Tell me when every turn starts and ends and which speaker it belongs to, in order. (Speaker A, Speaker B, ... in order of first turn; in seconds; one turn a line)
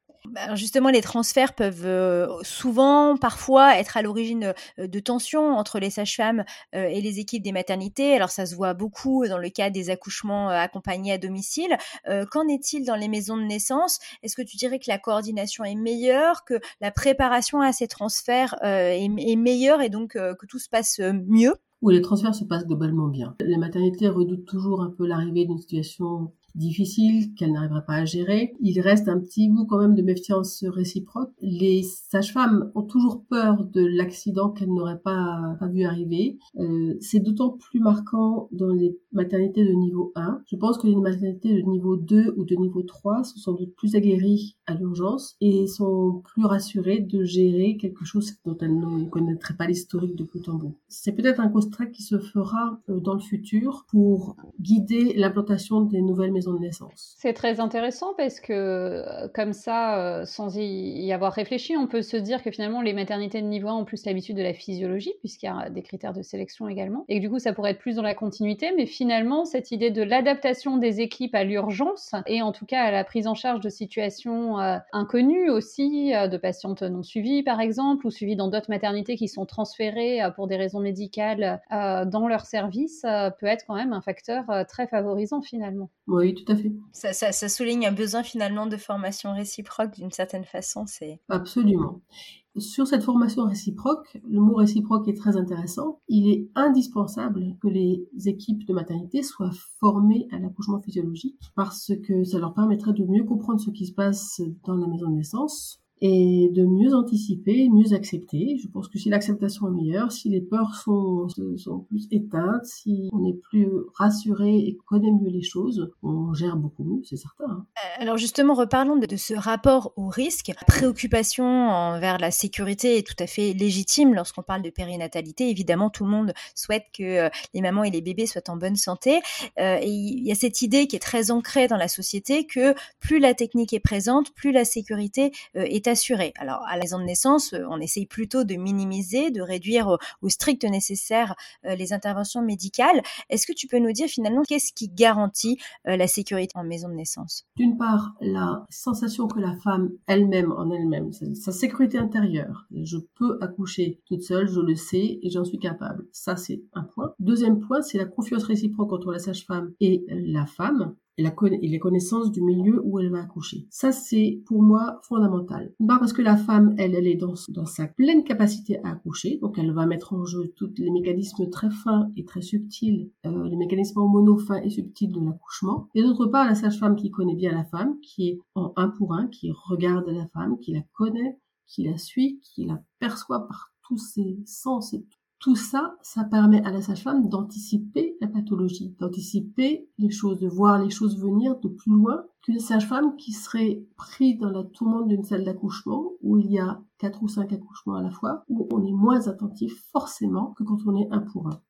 Speaker A: 0.3-21.6
Speaker B: 21.8-57.1
Speaker C: 57.2-85.9
Speaker B: 86.1-86.8
Speaker A: 86.9-91.2
Speaker B: 91.3-92.0
Speaker B: 92.5-117.7
Speaker A: 117.8-147.4
Speaker B: 147.6-201.6